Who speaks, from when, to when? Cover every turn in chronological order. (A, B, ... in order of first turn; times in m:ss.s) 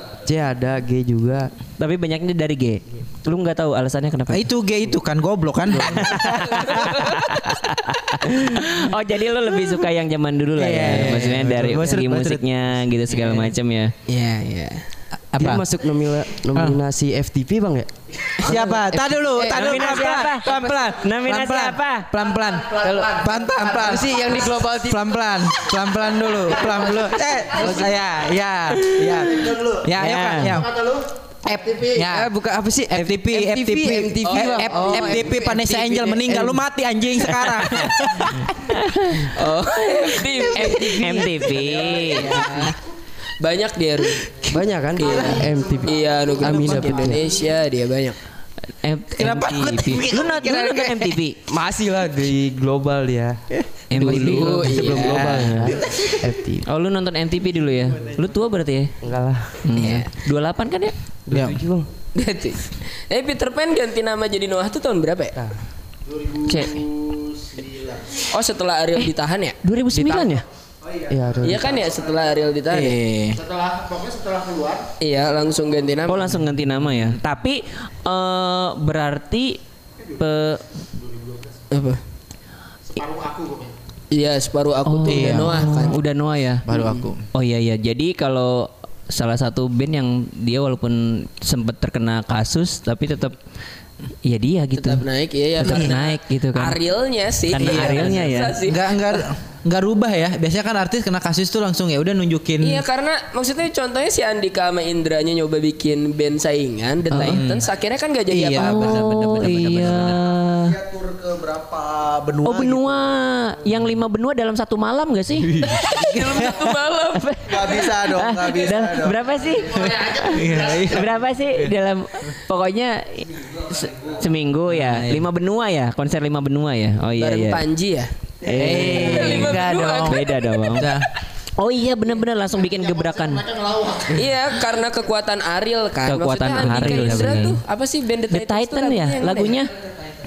0:00.2-0:01.5 A
0:01.8-0:04.4 B
0:04.3-0:07.0 C
0:05.8-0:13.9 B
0:06.8-0:07.1 D
0:10.6-0:13.5 C
0:14.0-0:14.8 D
0:15.3-0:15.6 C
0:15.4-0:20.9 A
0:16.5-0:16.8 C
0:18.4-0:24.1 C
0:19.5-0:22.1 B
0:22.4-0:24.0 E
0:22.8-0:25.1 A
0:24.8-0:30.7 C
0:26.5-0:27.9 A
0:26.6-0:27.8 E
0:28.9-0:29.2 B
0:29.0-0:29.9 E
0:30.0-0:30.6 B
0:30.5-0:32.1 E
0:31.5-0:32.3 C
0:32.1-0:36.6 A
0:32.9-0:38.5 C
0:34.2-0:35.2 D
0:37.2-0:39.3 B
0:39.3-0:42.8 D
0:40.6-0:42.0 A
0:40.6-0:42.3 B
0:41.9-0:42.5 E
0:43.4-0:48.2 D
0:44.5-0:47.2 A
0:45.0-0:47.5 E
0:48.8-0:51.4 B
0:49.1-0:51.2 C
0:51.5-0:53.4 A
0:53.9-0:54.9 B
0:53.9-0:56.2 C
0:54.0-0:56.6 A
0:54.4-0:55.5 D
0:56.6-0:58.9 B
0:59.0-0:59.6 A
0:59.6-1:00.0 C
0:59.7-1:01.0 B
0:59.8-1:00.1 D
1:01.3-1:01.9 A
1:01.3-1:01.6 C
1:02.1-1:05.4 D
1:06.0-1:08.2 E
1:06.5-1:06.8 B
1:08.3-1:09.6 D
1:09.6-1:10.4 B
1:10.8-1:12.4 E
1:11.1-1:11.8 A
1:11.4-1:13.0 D
1:12.7-1:13.4 C
1:13.3-1:14.9 E
1:15.0-1:16.4 D
1:16.0-1:19.6 B
1:16.3-1:17.2 C
1:20.0-1:20.2 E
1:20.2-1:20.6 B
1:20.8-1:21.6 E
1:21.7-1:22.0 D
1:22.9-1:23.7 E
1:24.1-1:26.0 D
1:24.8-1:26.6 B
1:25.1-1:25.7 C
1:26.6-1:27.2 C
1:26.7-1:27.1 D
1:27.3-1:33.4 B
1:34.2-1:35.0 B
1:34.8-1:39.2 D
1:35.6-1:36.8 B
1:35.6-1:36.0 C
1:37.5-1:38.6 B
1:37.5-1:42.8 C
1:42.6-1:49.0 D
1:47.1-1:47.4 B
1:47.2-1:47.7 C
1:48.3-1:50.2 C
1:48.6-1:50.8 B
1:50.6-1:53.0 E
1:52.4-1:55.7 B
1:55.4-1:56.6 C
1:55.6-1:57.9 D
1:57.1-2:07.6 B
1:57.4-2:01.1 E
1:58.0-1:58.9 C
2:00.0-2:01.7 C
2:04.7-2:05.3 C
2:07.2-2:08.1 D
2:08.4-2:10.9 B
2:08.4-2:10.2 C
2:08.6-2:10.6 D
2:10.7-2:11.1 C
2:11.6-2:13.4 B
2:12.6-2:14.6 E
2:14.1-2:19.6 D
2:16.1-2:17.6 B
2:16.6-2:17.5 C
2:18.3-2:19.7 B